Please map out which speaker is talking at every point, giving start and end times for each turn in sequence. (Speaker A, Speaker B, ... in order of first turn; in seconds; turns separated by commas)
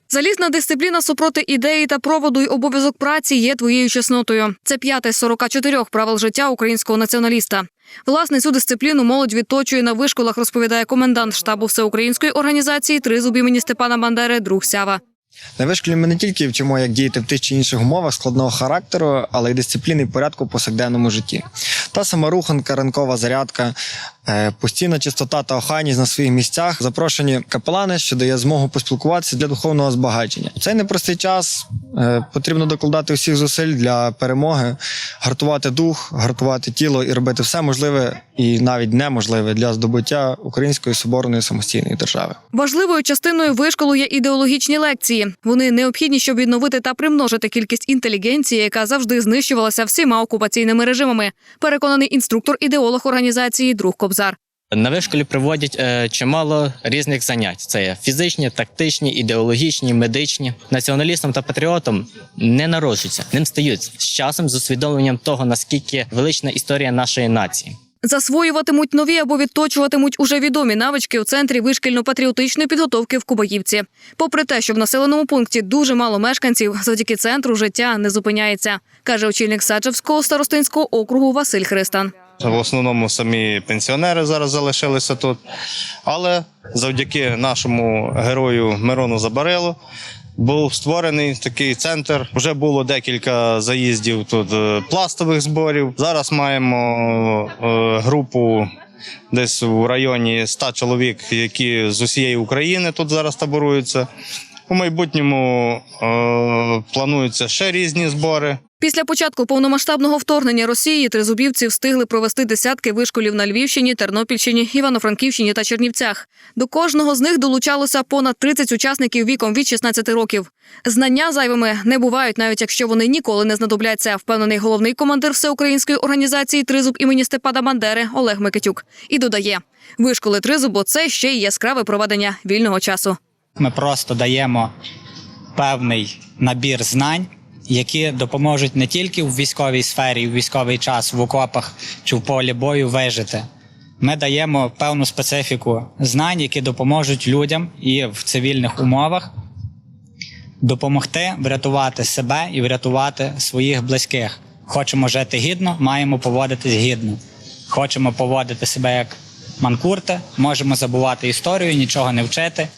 Speaker A: 0.1-15.0, Speaker B: 15.6-23.8, Speaker B: 24.3-42.4, Speaker A: 42.5-54.4, Speaker C: 54.7-67.8, Speaker A: 68.0-82.1, Speaker D: 82.4-85.4, Speaker D: 86.1-89.8, Speaker D: 90.4-98.7, Speaker D: 99.3-104.1, Speaker D: 104.7-108.6, Speaker A: 108.8-133.2, Speaker E: 133.6-134.7, Speaker E: 135.6-143.4, Speaker E: 144.0-149.3, Speaker E: 150.6-157.2, Speaker E: 157.7-162.7